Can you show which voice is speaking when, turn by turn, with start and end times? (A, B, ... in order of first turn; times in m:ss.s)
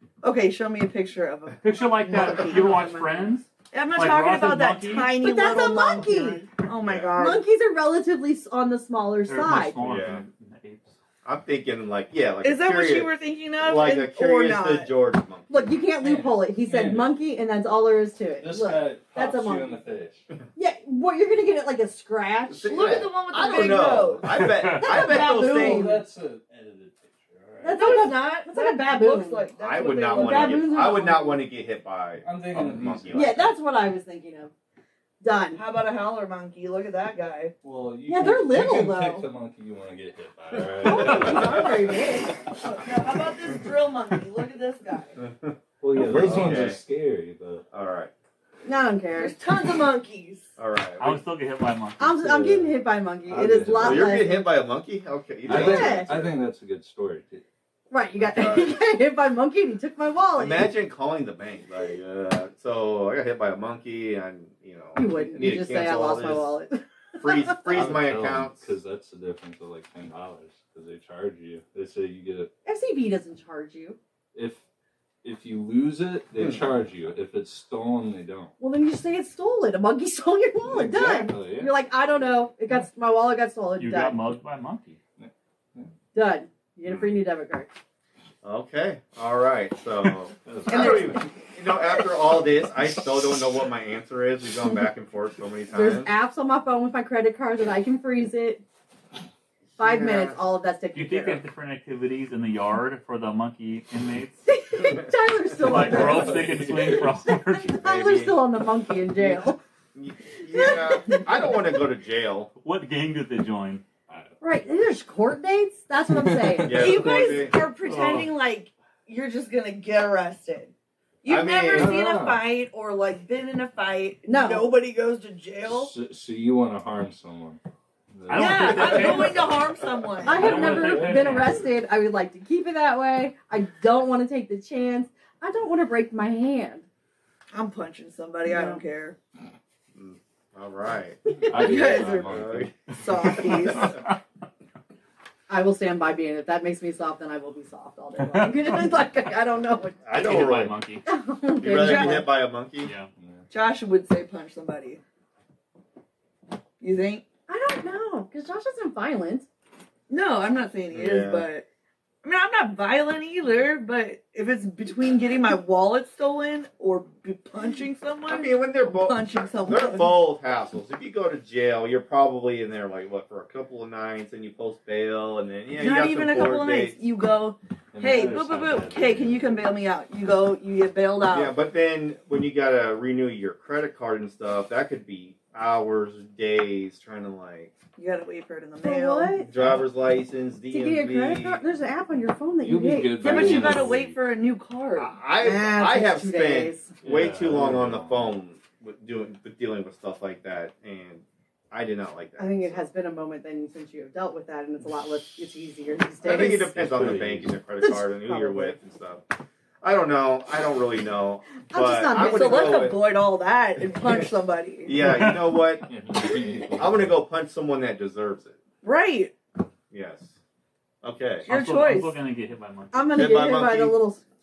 0:00.2-0:03.0 A
0:01.6-0:05.2 B
0:02.1-0:03.3 C
0:03.7-0:07.4 A
0:05.1-0:06.4 C
0:06.8-0:07.2 D
0:07.2-0:09.8 C
0:09.2-0:11.0 B
0:09.8-0:10.2 D
0:11.2-0:15.8 D
0:12.4-0:14.9 A
0:15.5-0:19.8 C
0:16.6-0:17.1 E
0:18.4-0:20.2 E
0:20.6-0:24.1 C
0:22.5-0:26.0 D
0:22.6-0:24.5 A
0:24.4-0:25.0 B
0:24.6-0:26.0 C
0:24.9-0:28.1 E
0:27.6-0:31.5 C
0:27.7-0:30.8 A
0:29.6-0:33.5 D
0:32.2-0:33.4 E
0:33.1-0:34.5 C
0:35.2-0:35.6 C
0:35.6-0:37.6 A
0:37.6-0:42.0 E
0:38.1-0:39.3 C
0:40.8-0:42.5 C
0:40.9-0:41.4 B
0:42.6-0:45.2 A
0:45.2-0:46.8 D
0:45.8-0:47.6 E
0:47.7-0:48.1 D
0:48.6-0:49.4 C
0:49.1-0:50.6 A
0:50.6-0:51.2 D
0:51.0-0:52.0 B
0:52.0-0:54.4 C
0:52.0-0:54.2 E
0:53.8-0:56.3 D
0:55.5-0:57.4 E
0:55.5-0:56.1 C
0:57.9-1:00.7 C
0:58.2-0:58.8 D
1:00.4-1:06.6 D
1:05.0-1:07.5 C
1:07.2-1:08.7 D
1:07.7-1:12.5 E
1:12.6-1:14.0 C
1:14.3-1:14.6 E
1:15.2-1:18.5 E
1:16.4-1:16.7 D
1:18.6-1:24.2 C
1:20.6-1:21.7 E
1:23.8-1:25.0 B
1:25.2-1:25.9 E
1:26.1-1:27.7 C
1:26.9-1:27.1 D
1:28.4-1:36.1 D
1:30.5-1:31.2 E
1:30.7-1:31.2 A
1:35.7-1:38.6 C
1:39.8-1:40.4 D
1:39.8-1:41.4 C
1:40.9-1:44.4 B
1:44.5-1:49.6 C
1:45.6-1:47.8 B
1:45.7-1:46.7 D
1:47.8-1:48.4 D
1:49.2-1:52.5 D
1:50.5-1:51.3 C
1:52.6-1:53.8 B
1:54.4-1:57.0 C
1:56.1-1:56.9 E
1:56.6-1:57.6 D
1:56.7-2:05.9 A
1:57.8-1:58.3 B
2:01.3-2:02.0 D
2:01.7-2:02.4 E
2:04.3-2:04.8 C
2:05.7-2:07.6 E
2:08.1-2:09.4 E
2:08.3-2:09.6 B
2:08.3-2:10.9 A
2:10.2-2:11.6 E
2:10.2-2:16.9 C
2:10.3-2:11.6 B
2:17.5-2:19.2 A
2:18.4-2:18.8 C
2:19.9-2:22.7 D
2:21.5-2:22.7 E
2:21.6-2:24.0 A
2:23.4-2:24.2 B
2:25.5-2:30.0 C
2:28.2-2:28.9 B
2:30.0-2:30.8 D
2:30.1-2:31.1 B
2:31.1-2:32.3 C
2:31.6-2:32.9 D
2:31.7-2:32.3 A
2:32.8-2:33.1 B
2:33.2-2:33.4 E
2:33.5-2:35.0 A
2:36.8-2:37.2 A
2:37.5-2:39.5 C
2:40.1-2:41.6 A
2:40.9-2:41.5 D
2:42.2-2:50.2 A
2:48.3-2:57.0 D
2:55.8-3:01.6 A
2:57.9-2:59.6 E
3:01.3-3:07.7 D
3:08.0-3:09.4 A
3:08.8-3:09.5 C
3:09.4-3:11.6 D
3:10.7-3:13.9 C
3:12.6-3:14.2 E
3:13.2-3:15.2 A
3:15.0-3:22.9 D
3:15.4-3:16.9 C
3:17.0-3:18.4 E
3:22.4-3:26.8 C
3:26.2-3:29.2 D
3:26.4-3:27.6 E
3:27.8-3:28.8 C
3:29.8-3:33.0 D
3:31.7-3:32.9 C
3:32.2-3:35.0 A
3:34.8-3:35.9 D
3:35.0-3:35.6 B
3:35.9-3:37.2 E
3:36.7-3:38.6 D
3:38.8-3:39.3 A
3:39.9-3:40.4 D
3:41.0-3:41.5 D
3:41.5-3:42.2 A
3:41.5-3:43.3 B
3:42.9-3:44.3 C
3:43.1-3:44.0 D